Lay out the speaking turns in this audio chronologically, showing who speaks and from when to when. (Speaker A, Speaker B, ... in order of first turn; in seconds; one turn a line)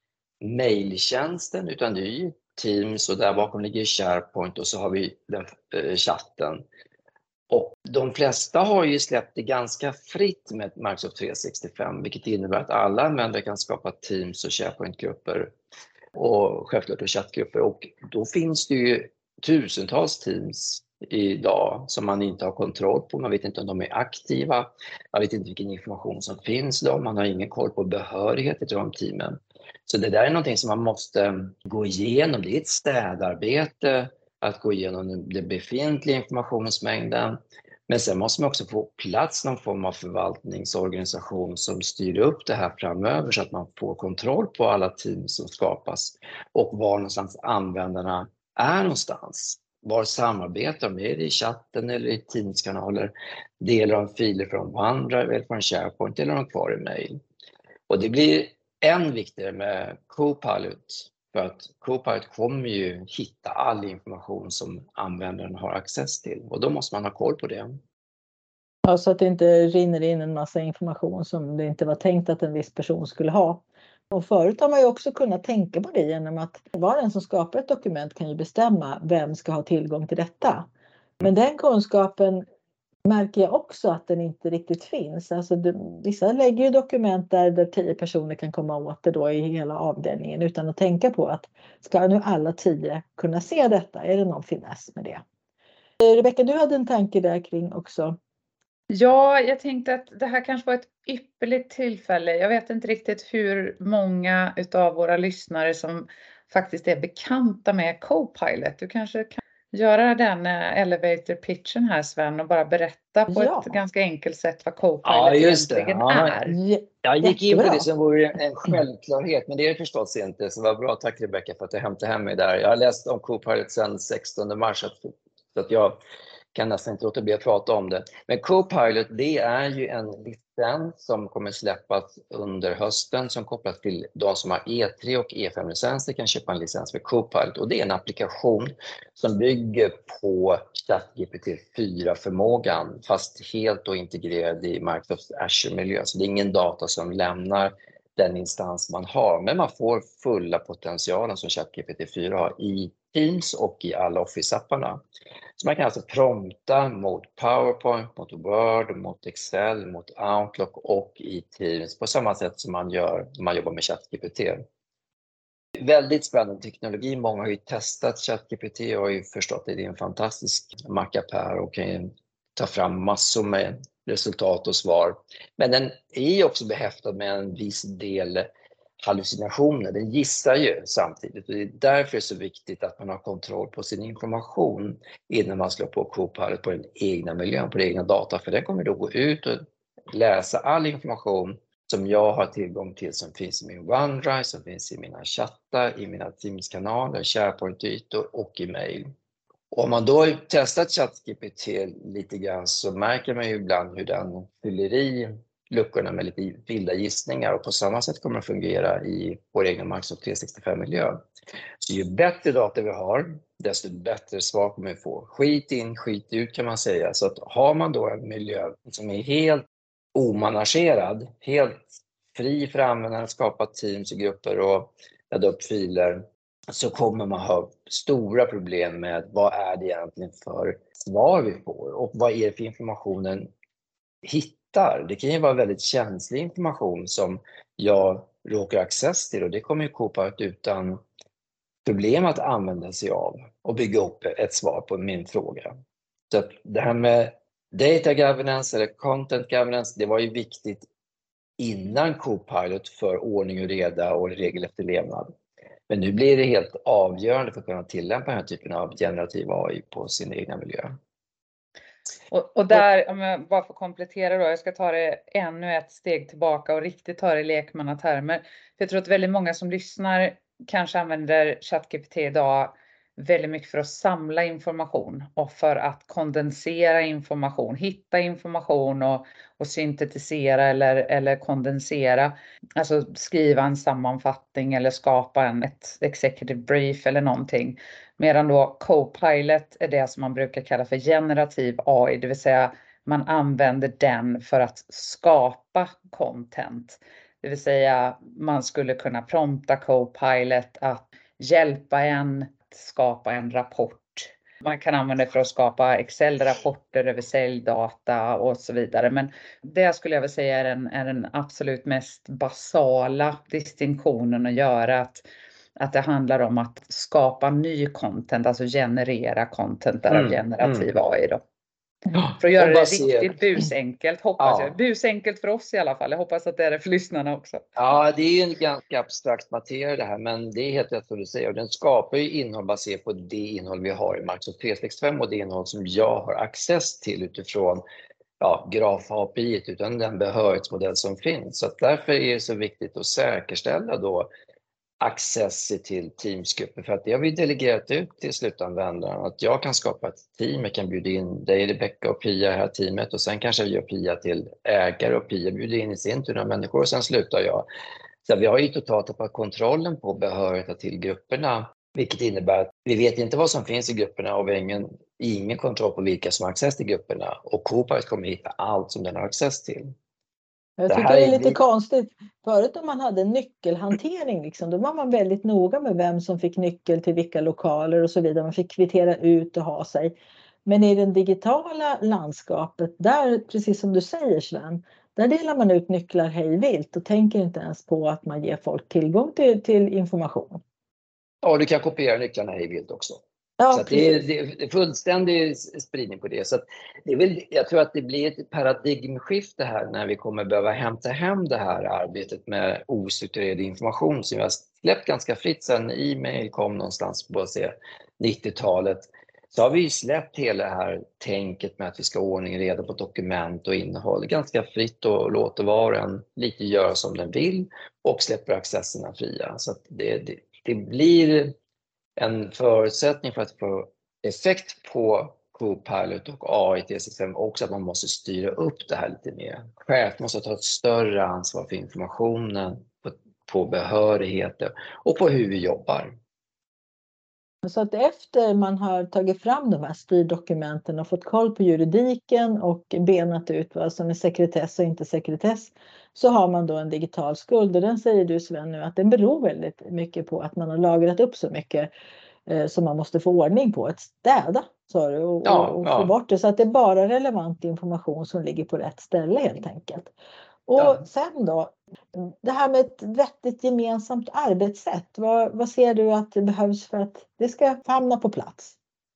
Speaker A: 0.4-6.6
Speaker A: 7.5-15.5
Speaker A: 16.1-57.2
Speaker A: 57.9-67.8
Speaker B: 68.8-80.7
Speaker B: 81.2-82.4
Speaker B: 83.1-95.2
Speaker B: 96.0-98.2
Speaker C: 98.9-116.6
Speaker B: 113.3-113.7
Speaker A: 115.0-116.4
Speaker B: 116.5-117.9
Speaker A: 117.0-126.0
Speaker A: 126.5-155.0
Speaker A: 155.6-164.6
Speaker A: 165.8-178.5
Speaker A: 179.0-199.1
Speaker A: 199.7-211.2
Speaker A: 211.8-233.5
Speaker A: 234.2-241.0
Speaker A: 241.8-245.8
Speaker A: 246.3-250.9
Speaker A: 251.6-255.3
Speaker A: 255.9-261.0
Speaker C: 262.3-315.2
Speaker C: 315.8-321.4
Speaker A: 320.1-320.9
Speaker A: 322.1-323.4
Speaker C: 322.4-327.6
Speaker A: 324.4-324.7
Speaker A: 327.8-337.8
Speaker A: 338.4-344.3
Speaker A: 345.0-357.7
Speaker A: 358.2-369.9
Speaker B: 370.8-380.1
Speaker A: 370.9-371.6
Speaker B: 380.6-390.6
Speaker A: 391.4-421.6
Speaker B: 393.6-394.1
Speaker A: 422.1-436.1
Speaker B: 437.6-451.9
Speaker B: 452.5-460.1
Speaker A: 455.4-456.1
Speaker B: 460.7-468.8